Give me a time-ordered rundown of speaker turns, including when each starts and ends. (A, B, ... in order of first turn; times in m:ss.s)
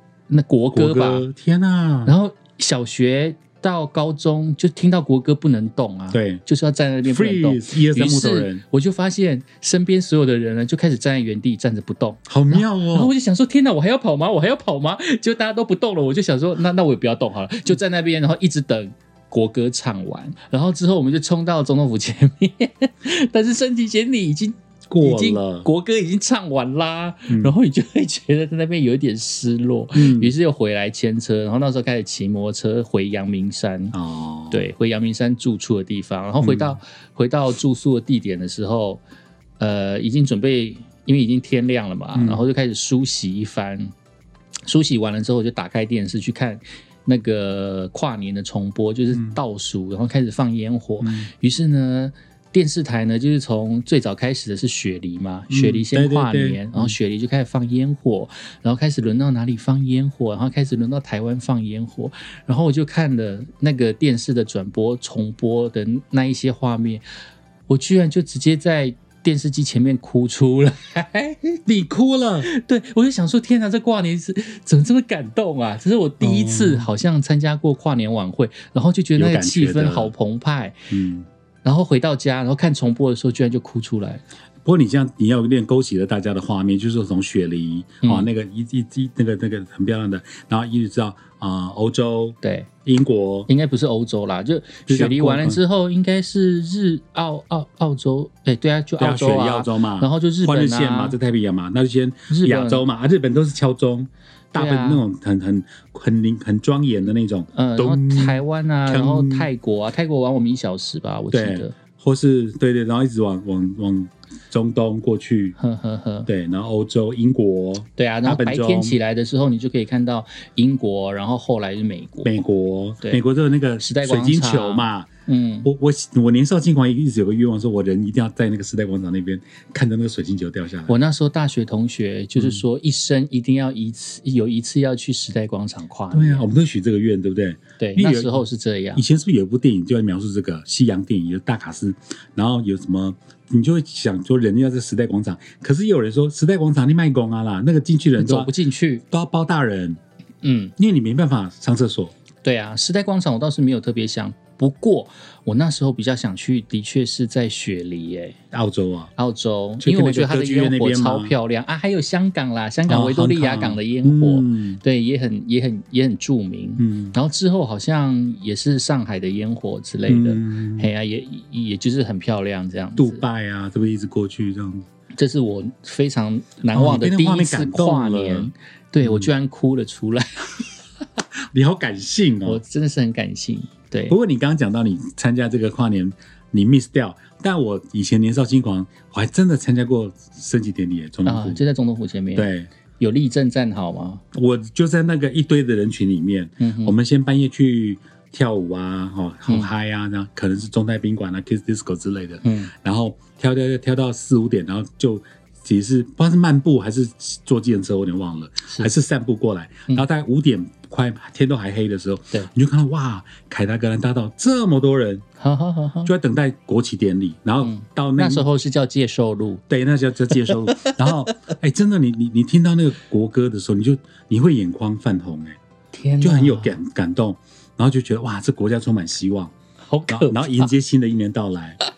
0:00.3-0:01.2 A
0:00.7-0:02.1 B
0:02.0-0:33.9 A
0:06.1-0:06.4 B
0:07.0-0:08.6 B
0:12.3-0:13.1 B
0:24.9-0:25.6 B
0:29.9-0:30.3 B
0:33.9-0:34.6 B
0:34.5-0:39.0 A
0:36.4-0:36.8 B
0:39.6-0:43.9 A
0:42.1-0:42.4 B
0:44.6-1:07.0 A
0:49.1-0:49.4 B
0:51.0-0:51.3 B
0:55.5-0:56.9 B
1:07.7-1:11.6 A
1:11.6-1:12.5 B
1:12.4-1:20.8 A
1:16.2-1:16.9 B
1:19.2-1:20.1 B
1:20.9-1:21.3 B
1:21.6-1:24.2 A
1:24.6-1:33.5 B
1:28.0-1:28.3 A
1:32.4-1:32.7 A
1:33.5-1:41.2 A
1:34.9-1:35.6 B
1:39.0-1:49.5 B
1:42.3-1:42.8 A
1:44.6-1:45.0 A
1:47.5-1:51.7 A
1:51.3-1:55.6 B
1:55.6-1:56.3 A
1:56.3-1:59.0 B
1:58.0-2:02.4 A
2:02.2-2:05.1 B
2:03.8-2:05.7 A
2:05.6-2:10.9 B
2:10.9-2:16.5 A
2:12.4-2:12.6 B
2:16.1-2:28.5 B
2:17.8-2:19.0 A
2:28.2-2:29.0 A
2:29.1-2:30.0 B
2:30.4-2:30.7 A
2:30.8-2:32.1 B
2:32.4-2:38.4 A
2:38.5-2:39.1 B
2:39.2-2:53.2 A
2:39.8-2:41.3 B
2:42.9-2:44.8 B
2:46.8-2:47.1 B
2:50.1-2:50.9 B
2:53.0-2:54.9 B
2:55.2-3:00.7 A
2:56.7-2:58.5 B
2:59.0-2:59.3 B
3:01.5-3:02.6 B
3:02.4-3:04.2 A
3:04.1-3:11.6 B
3:11.2-3:14.2 A
3:12.3-3:12.7 B
3:14.3-3:35.2 B
3:16.6-3:16.9 A
3:22.4-3:22.7 A
3:35.4-3:36.1 A
3:36.0-3:38.4 B
3:37.6-3:39.6 A
3:39.7-3:45.6 B
3:40.3-3:41.1 A
3:45.9-3:46.8 A
3:46.2-3:49.5 B
3:49.9-3:50.7 A
3:50.1-3:51.8 B